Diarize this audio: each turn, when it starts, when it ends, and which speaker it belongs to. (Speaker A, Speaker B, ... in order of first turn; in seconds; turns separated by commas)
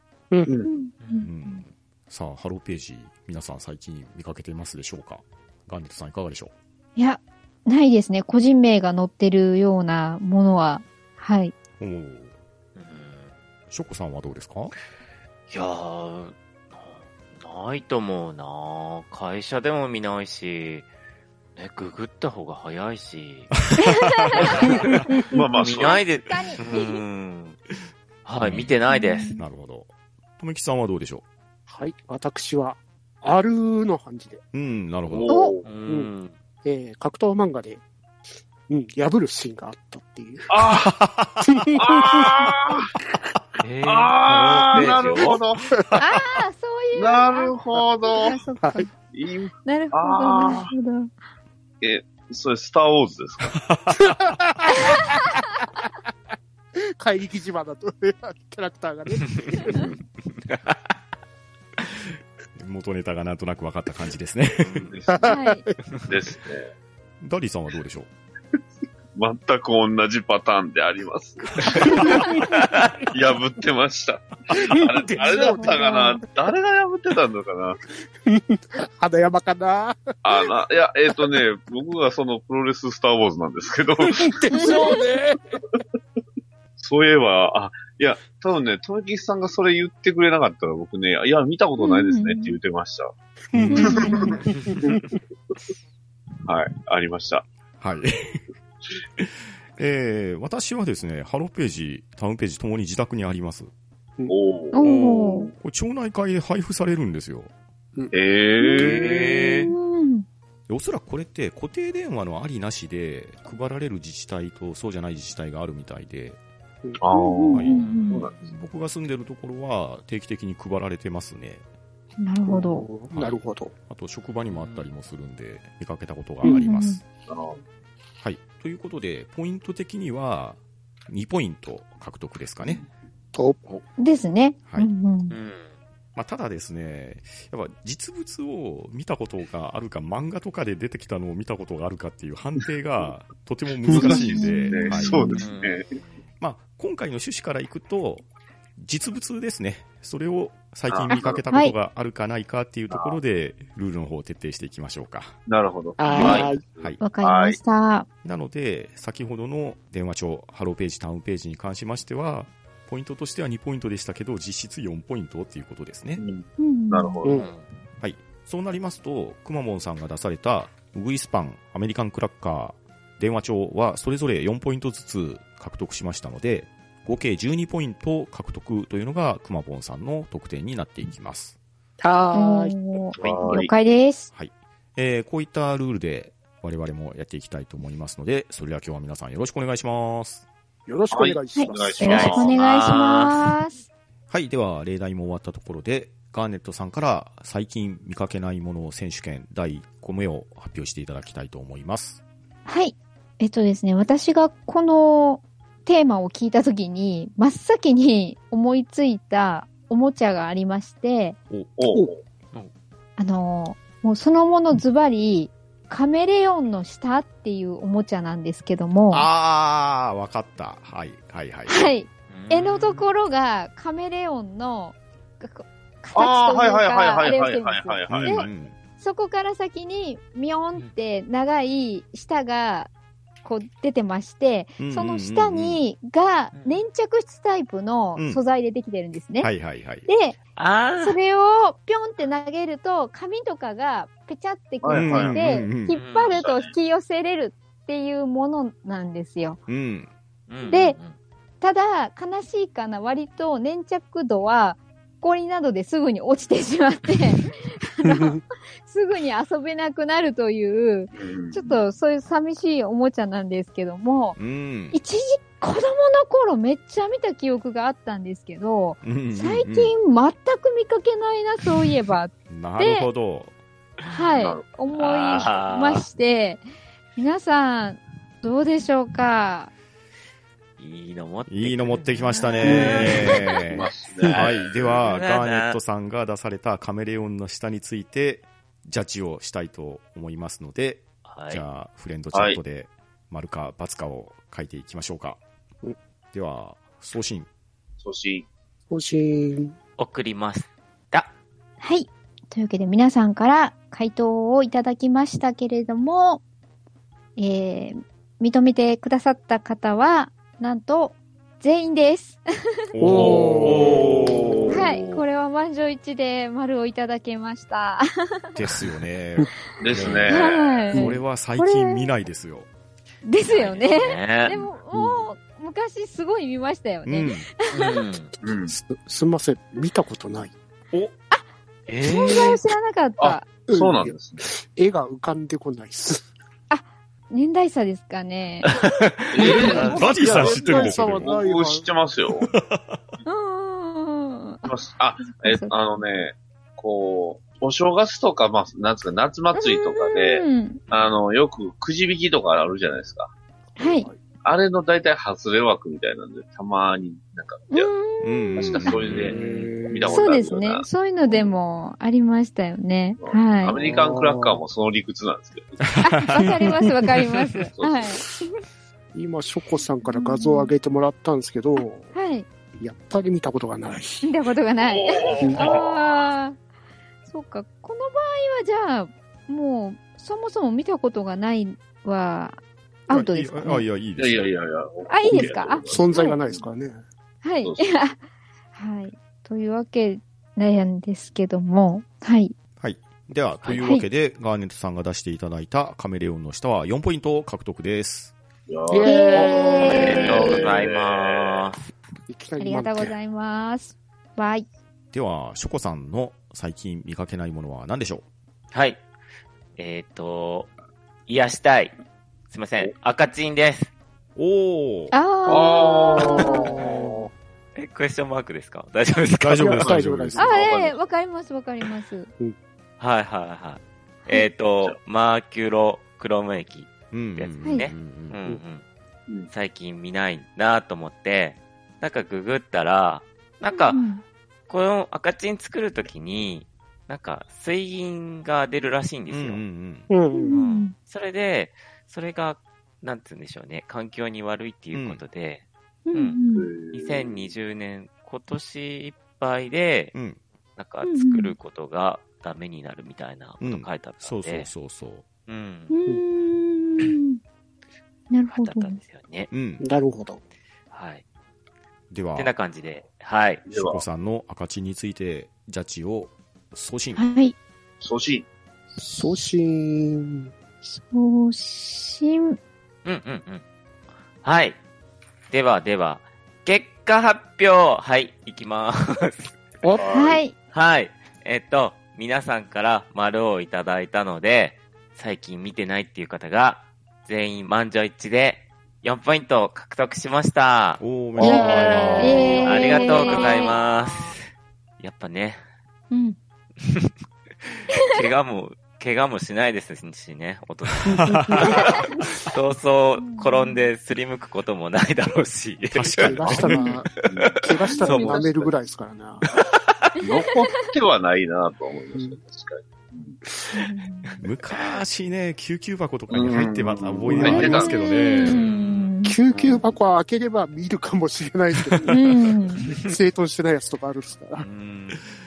Speaker A: 0.3-0.6, Speaker B: 0.7-1.6, Speaker C: 1.0-1.3, Speaker D: 1.2-6.5, Speaker B: 7.0-11.5, Speaker D: 11.8-12.3, Speaker C: 12.8-13.3, Speaker D: 13.7-14.7, Speaker C: 15.5-20.9, Speaker C: 21.6-23.6, Speaker D: 23.7-24.7, Speaker B: 23.8-27.0, Speaker E: 24.4-24.7, Speaker C: 24.5-24.9, Speaker E: 25.3-26.1, Speaker C: 25.6-27.6, Speaker C: 28.2-29.4, Speaker D: 28.4-28.7, Speaker B: 28.9-29.4, Speaker D: 29.4-29.9, Speaker D: 30.4-31.2, Speaker A: 31.7-34.4, Speaker D: 34.5-35.4, Speaker E: 35.1-35.7, Speaker B: 35.3-35.6, Speaker C: 35.7-36.3, Speaker A: 36.6-37.8, Speaker A: 38.7-40.5, Speaker E: 40.5-40.9, Speaker D: 40.8-41.6, Speaker A: 41.5-42.5, Speaker E: 41.8-42.9, Speaker C: 43.6-45.4, Speaker E: 43.8-45.6, Speaker D: 45.7-46.1, Speaker B: 46.0-48.9, Speaker E: 46.9-48.4, Speaker A: 48.6-48.9, Speaker E: 49.0-50.7, Speaker B: 49.6-51.1, Speaker E: 51.8-53.6, Speaker D: 53.4-54.2, Speaker A: 54.0-55.1, Speaker B: 54.8-55.2, Speaker A: 57.0-59.9, Speaker E: 59.6-60.0, Speaker C: 60.2-60.8, Speaker D: 62.6-64.9, Speaker C: 64.6-64.9, Speaker E: 64.9-65.2, Speaker A: 65.1-65.8, Speaker B: 65.2-65.7, Speaker E: 66.1-66.7, Speaker D: 67.2-68.1, Speaker E: 69.2-72.5, Speaker E: 73.1-77.8, Speaker A: 74.8-76.1, Speaker B: 75.3-76.2, Speaker A: 78.3-80.4, Speaker E: 80.2-85.0, Speaker A: 84.1-85.6, Speaker B: 84.5-85.0, Speaker E: 86.8-93.1, Speaker B: 91.8-92.5, Speaker D: 93.5-94.1, Speaker A: 93.5-95.0, Speaker B: 93.7-94.4, Speaker E: 93.8-94.4, Speaker E: 96.4-97.5, Speaker D: 97.8-98.4, Speaker D: 99.2-103.7, Speaker E: 104.3-104.8, Speaker B: 104.7-105.5, Speaker C: 104.8-105.4, Speaker D: 105.6-107.5, Speaker E: 108.1-109.6, Speaker B: 108.6-108.9, Speaker C: 108.8-109.7, Speaker B: 109.6-110.3, Speaker D: 110.7-116.4, Speaker E: 117.0-118.5, Speaker B: 117.1-118.2, Speaker D: 117.5-117.9, Speaker C: 117.7-118.3, Speaker D: 118.5-121.6, Speaker B: 122.2-122.8, Speaker A: 122.5-123.7, Speaker D: 123.1-127.0, Speaker C: 124.5-124.9, Speaker A: 126.4-126.7, Speaker B: 126.4-127.0, Speaker E: 127.3-127.6, Speaker D: 128.2-132.8, Speaker A: 133.3-133.6, Speaker B: 134.0-135.4, Speaker C: 135.3-135.7, Speaker D: 136.2-145.2, Speaker E: 143.9-146.0, Speaker B: 144.1-145.4, Speaker A: 144.9-145.4, Speaker C: 145.4-146.2, Speaker D: 146.4-148.2, Speaker D: 148.8-155.4, Speaker E: 150.9-151.4, Speaker B: 151.1-151.8, Speaker E: 152.9-153.2, Speaker E: 155.4-157.6, Speaker A: 156.0-156.6, Speaker B: 156.1-156.4, Speaker C: 156.2-156.4, Speaker B: 157.0-158.1, Speaker D: 158.2-166.2, Speaker E: 166.2-167.5, Speaker B: 166.6-167.2, Speaker C: 167.3-167.7, Speaker D: 168.0-181.6, Speaker A: 182.0-183.0, Speaker B: 182.3-184.3, Speaker E: 183.1-183.7, Speaker D: 184.3-190.4, Speaker A: 190.9-192.4, Speaker E: 191.1-192.6, Speaker B: 191.6-193.8, Speaker C: 192.0-193.6, Speaker D: 194.3-202.2, Speaker B: 202.7-211.4, Speaker E: 211.8-212.2, Speaker B: 213.2-219.3, Speaker D: 219.1-221.9, Speaker B: 221.7-228.5, Speaker C: 222.3-223.1, Speaker E: 226.2-228.4, Speaker D: 228.1-228.8, Speaker B: 229.0-232.9, Speaker B: 233.4-239.5, Speaker D: 234.8-235.8, Speaker C: 236.5-236.8, Speaker D: 238.2-238.4, Speaker D: 239.4-240.1, Speaker B: 240.1-240.4, Speaker C: 240.6-241.2, Speaker B: 241.0-249.6, Speaker E: 244.8-245.5, Speaker D: 244.9-246.0, Speaker C: 245.9-246.4, Speaker E: 246.3-246.7, Speaker D: 249.7-250.1, Speaker C: 250.5-251.2, Speaker B: 250.7-251.0, Speaker B: 251.6-258.3, Speaker A: 258.1-258.4, Speaker B: 258.8-264.4, Speaker E: 261.1-261.6, Speaker D: 264.4-265.0, Speaker B: 264.9-273.1, Speaker D: 269.0-269.9, Speaker D: 272.5-273.5, Speaker C: 274.0-274.3, Speaker B: 274.1-276.6, Speaker E: 274.3-274.7, Speaker C: 274.9-276.1, Speaker B: 277.2-279.7, Speaker C: 280.8-283.6, Speaker D: 281.5-295.4, Speaker A: 282.6-283.1, Speaker E: 282.8-285.1, Speaker B: 283.1-283.4, Speaker C: 284.9-285.8, Speaker C: 291.3-291.6, Speaker E: 292.3-292.6, Speaker D: 296.3-297.5, Speaker E: 298.0-298.5, Speaker A: 298.9-299.8, Speaker C: 300.0-301.3, Speaker B: 301.8-306.4, Speaker B: 307.4-312.4, Speaker D: 312.9-314.8, Speaker A: 313.0-314.8, Speaker E: 313.6-314.8, Speaker B: 314.7-318.0, Speaker D: 318.6-320.3, Speaker E: 319.8-320.9, Speaker C: 319.9-320.3, Speaker B: 320.3-322.1, Speaker A: 320.9-321.2, Speaker D: 320.9-322.7, Speaker B: 323.2-328.0, Speaker C: 323.4-324.6, Speaker A: 324.9-325.3, Speaker D: 327.1-327.5, Speaker C: 327.7-328.3, Speaker E: 328.4-328.8, Speaker A: 328.7-330.5, Speaker C: 331.9-332.6, Speaker B: 332.0-333.5, Speaker E: 333.2-334.5, Speaker A: 333.3-336.3, Speaker B: 336.7-338.7, Speaker C: 338.8-340.2, Speaker E: 339.3-342.5, Speaker A: 339.4-341.8, Speaker B: 339.4-339.9, Speaker D: 339.9-341.3, Speaker D: 342.5-342.9, Speaker B: 343.3-345.7, Speaker E: 344.6-353.3, Speaker B: 349.6-350.8, Speaker A: 353.8-354.2, Speaker B: 353.8-354.1, Speaker E: 354.4-357.9, Speaker B: 357.7-359.0, Speaker D: 358.2-359.3, Speaker E: 358.6-360.9, Speaker C: 359.0-359.9, Speaker A: 359.2-360.2, Speaker B: 360.1-363.8, Speaker E: 363.2-365.9, Speaker A: 363.7-364.6, Speaker D: 365.9-366.7, Speaker B: 366.0-368.6, Speaker E: 367.7-368.1, Speaker A: 369.1-372.1, Speaker B: 370.1-370.7, Speaker B: 371.8-372.4, Speaker A: 372.8-374.2, Speaker B: 374.2-376.6, Speaker E: 374.8-376.0, Speaker B: 377.3-383.8, Speaker D: 383.1-384.5, Speaker E: 384.2-386.6, Speaker B: 385.1-386.4, Speaker A: 385.9-387.0, Speaker B: 387.4-388.2, Speaker E: 387.6-387.9, Speaker B: 388.8-392.5, Speaker D: 392.8-398.3, Speaker C: 393.6-393.9, Speaker B: 393.7-394.1, Speaker E: 398.7-401.7, Speaker A: 398.9-400.5, Speaker B: 399.0-400.6, Speaker C: 399.8-401.9, Speaker A: 402.3-403.1, Speaker B: 402.6-404.7, Speaker D: 405.1-408.2, Speaker C: 408.7-409.0, Speaker C: 409.8-410.7, Speaker C: 411.3-411.9, Speaker C: 412.5-413.9, Speaker D: 414.4-415.1, Speaker B: 415.1-416.7, Speaker E: 415.4-417.1, Speaker A: 416.2-417.3, Speaker C: 417.8-419.9, Speaker D: 419.4-420.6, Speaker A: 419.6-420.9, Speaker B: 420.4-422.3, Speaker C: 423.0-428.8, Speaker D: 427.1-428.4, Speaker C: 429.5-434.0, Speaker B: 433.7-434.2, Speaker C: 434.7-439.6, Speaker D: 439.3-440.1, Speaker A: 440.1-440.6, Speaker B: 440.3-440.9, Speaker C: 440.5-446.4, Speaker D: 444.9-445.2, Speaker B: 446.1-446.7, Speaker E: 446.5-447.5, Speaker C: 446.9-450.1, Speaker D: 450.1-450.4, Speaker C: 450.8-454.7, Speaker B: 451.0-451.6, Speaker D: 453.6-455.2, Speaker C: 455.5-455.9, Speaker B: 455.9-457.4, Speaker B: 458.3-459.0, Speaker C: 458.5-459.5, Speaker D: 459.5-459.8, Speaker A: 459.8-460.4, Speaker C: 460.9-461.2, Speaker D: 462.1-462.5, Speaker C: 462.4-463.6, Speaker E: 463.7-464.0, Speaker D: 463.7-467.2, Speaker B: 467.1-467.6, Speaker E: 468.0-468.4, Speaker A: 469.0-470.5, Speaker B: 470.8-472.6, Speaker C: 473.1-473.6, Speaker C: 474.4-474.8, Speaker C: 475.5-479.6, Speaker A: 479.8-480.3, Speaker E: 480.0-480.4, Speaker B: 480.1-480.5, Speaker C: 480.7-495.6, Speaker D: 491.0-492.9, Speaker A: 491.4-493.6, Speaker B: 492.2-493.8, Speaker B: 496.1-496.4, Speaker C: 496.8-497.1, Speaker C: 497.6-508.4, Speaker A: 501.1-501.9, Speaker D: 501.2-501.7, Speaker B: 503.2-503.9, Speaker D: 505.9-506.7, Speaker A: 506.0-509.4, Speaker E: 506.4-506.8, Speaker B: 506.6-507.0, Speaker E: 507.3-508.7, Speaker B: 508.1-508.4, Speaker E: 510.2-513.4, Speaker A: 513.5-513.8, Speaker B: 513.7-514.3, Speaker D: 514.4-518.6, Speaker E: 516.3-518.1, Speaker A: 517.3-517.7, Speaker B: 517.4-519.4, Speaker C: 518.4-519.1, Speaker A: 519.2-524.6, Speaker B: 522.1-522.9, Speaker C: 524.6-525.2